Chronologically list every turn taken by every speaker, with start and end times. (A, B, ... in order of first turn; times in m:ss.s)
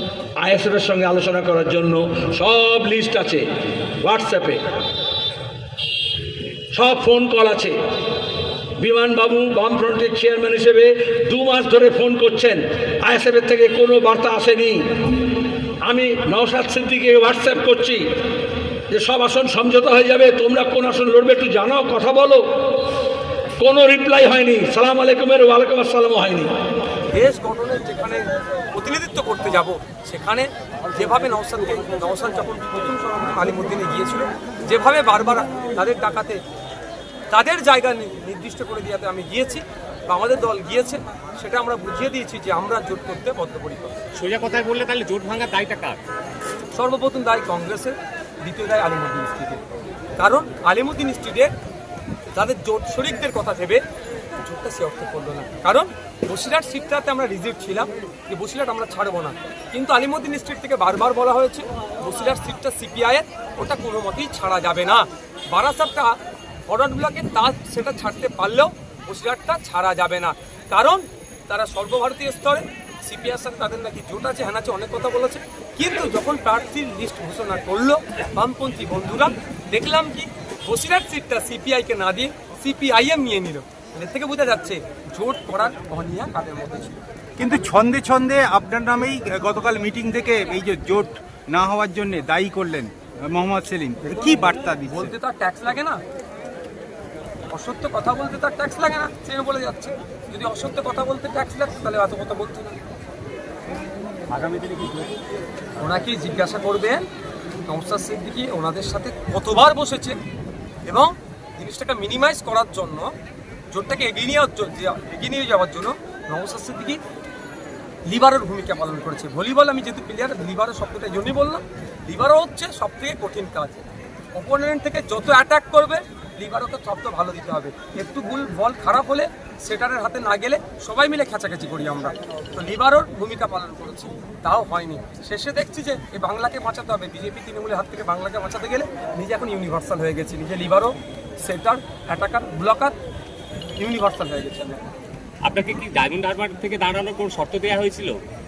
0:00.4-0:03.4 A
0:04.0-0:04.6 A
0:06.7-0:07.8 A
0:08.8-0:14.8 A
0:15.8-0:18.1 A
0:18.9-0:22.5 A
0:23.6-0:26.5 A
0:27.1-0:36.4 B
0:37.3-0:44.0 B
0:44.2-0:46.0 C
0:46.7-0:49.6 B
0:50.2-0:51.5 B
0:52.3-0:53.8 B
0:54.4-1:06.2 B
1:06.7-1:27.0 B
1:27.4-1:35.1 D
1:34.9-1:36.0 B
1:37.5-1:42.8 B
1:45.8-1:47.1 B
1:47.7-1:50.2 B
1:50.8-1:53.1 B
1:53.7-1:57.0 B
1:58.1-2:03.8 B
2:04.3-2:22.9 B
2:23.8-2:24.8 B
2:25.4-2:28.2 C